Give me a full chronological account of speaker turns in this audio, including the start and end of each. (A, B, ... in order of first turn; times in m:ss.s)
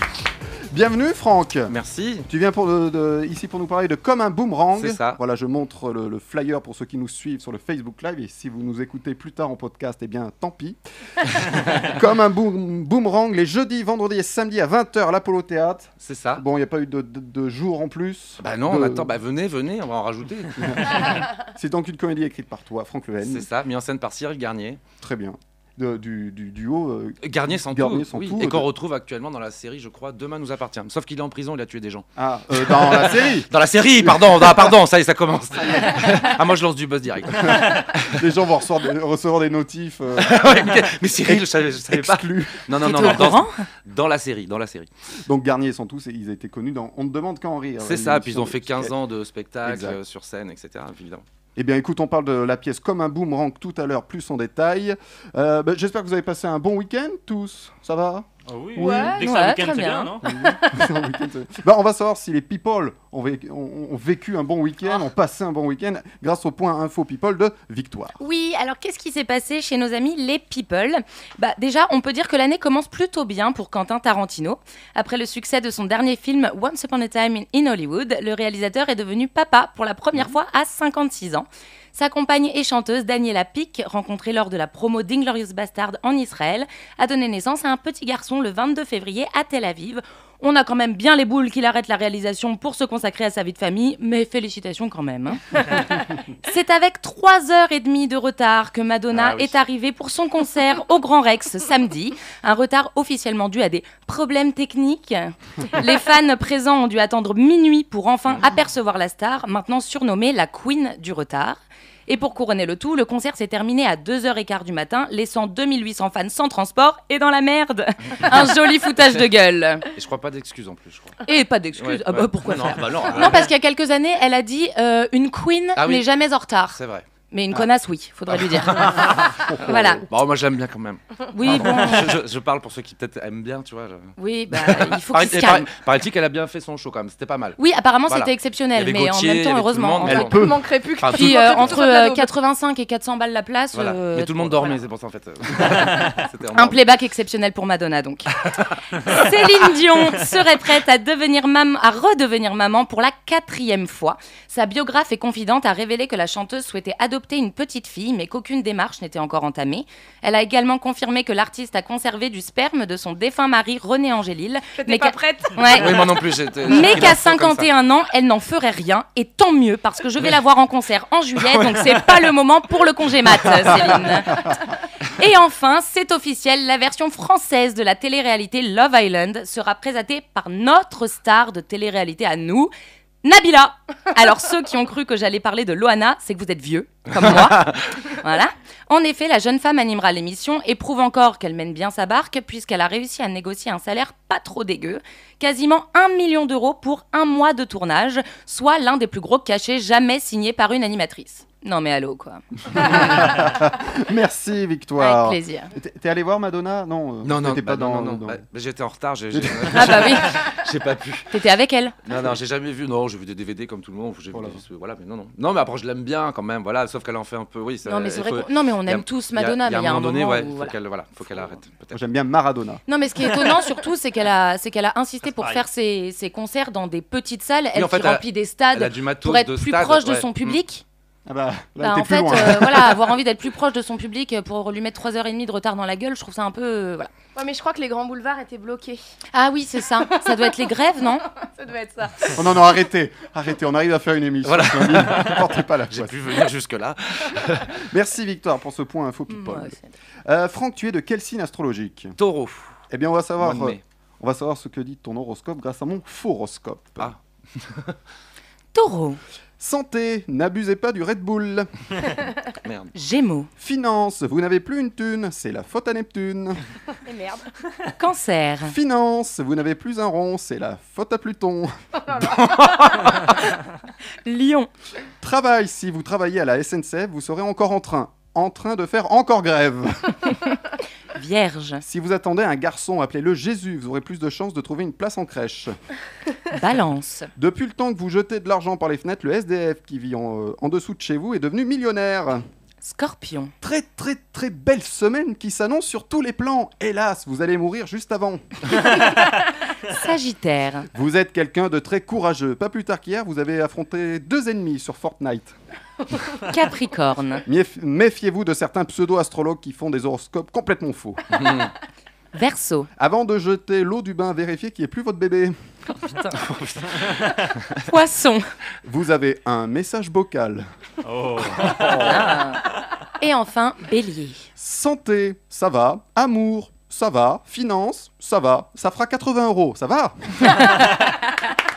0:00.7-0:01.7 A
0:01.7-0:02.3 B
0:02.3-0:19.1 A
0:04.7-0:05.2 B
0:16.0-0:16.4 B
0:18.4-0:21.1 B
0:20.6-0:23.5 A
0:23.2-0:24.8 B
0:25.0-0:28.7 A
0:27.2-0:38.2 B
0:32.2-0:33.5 A
0:34.0-0:34.8 A
0:35.5-0:36.3 A
0:37.3-0:40.4 A
0:40.2-0:44.9 B
0:41.2-0:43.2 A
0:42.8-0:43.7 C
0:45.3-0:49.0 A
0:47.8-0:51.2 B
0:49.6-0:50.0 A
0:51.6-0:59.2 A
0:58.5-1:00.3 D
0:58.8-1:00.4 C
1:00.2-1:08.2 A
1:08.2-1:59.9 C
1:39.1-1:39.6 B
2:00.0-2:01.2 B
2:01.2-2:10.0 C
2:01.8-2:03.5 B
2:05.8-2:06.1 B
2:06.7-2:07.0 B
2:08.4-2:21.8 B
2:09.4-2:10.0 A
2:11.3-2:12.2 C
2:14.2-2:15.7 C
2:17.6-2:20.4 C
2:20.0-2:20.6 A
2:20.4-2:22.3 E
2:21.1-2:24.8 C
2:23.7-2:26.8 B
2:26.5-2:28.4 C
2:29.0-2:54.5 C
2:44.8-2:45.9 E
2:45.7-2:47.7 B
2:51.4-2:52.0 B
2:53.3-2:53.8 B
2:55.1-3:02.7 C
3:03.2-3:23.1 C
3:07.1-3:08.1 B
3:22.8-3:28.4 A
3:25.0-3:25.7 C
3:27.2-3:31.4 B
3:29.3-3:29.9 A
3:29.7-3:30.4 C
3:31.3-3:32.0 C
3:32.0-3:42.0 B
3:34.3-3:34.6 A
3:37.9-3:40.8 C
3:41.9-3:42.8 A
3:42.9-3:50.8 C
3:45.2-3:45.6 D
3:47.8-3:50.6 B
3:51.3-3:53.0 A
3:51.8-3:57.1 C
3:57.4-3:59.0 E
3:59.3-4:01.2 C
4:00.1-4:00.7 E
4:01.3-4:02.4 E
4:02.3-4:06.2 A
4:04.4-4:07.9 B
4:07.8-4:12.2 A
4:09.3-4:09.9 C
4:12.2-4:12.7 B
4:12.9-4:17.1 A
4:13.4-4:13.8 B
4:17.0-4:18.0 B
4:18.7-4:19.2 C
4:19.6-4:21.7 A
4:22.6-4:22.9 B
4:23.0-4:23.5 C
4:23.6-4:26.6 A
4:27.0-4:27.5 E
4:28.0-4:28.7 C
4:28.6-4:32.2 A
4:32.1-4:32.9 E
4:32.3-4:33.4 B
4:34.2-4:34.7 C
4:35.2-4:40.3 A
4:41.1-4:41.8 C
4:41.8-4:45.8 A
4:46.5-4:47.3 C
4:47.4-4:52.4 A
4:52.8-4:53.5 C
4:53.6-4:58.8 A
4:59.8-5:00.9 C
5:00.9-5:05.6 A
5:06.4-5:07.4 C
5:07.4-5:11.2 A
5:11.4-5:11.7 B
5:12.3-5:12.9 C
5:13.0-5:15.6 A
5:16.2-5:17.8 B
5:17.8-5:18.5 C
5:18.8-5:20.7 A
5:21.0-5:22.2 D
5:21.6-5:22.3 A
5:21.9-5:22.6 C
5:23.2-5:24.5 C
5:24.6-5:30.8 A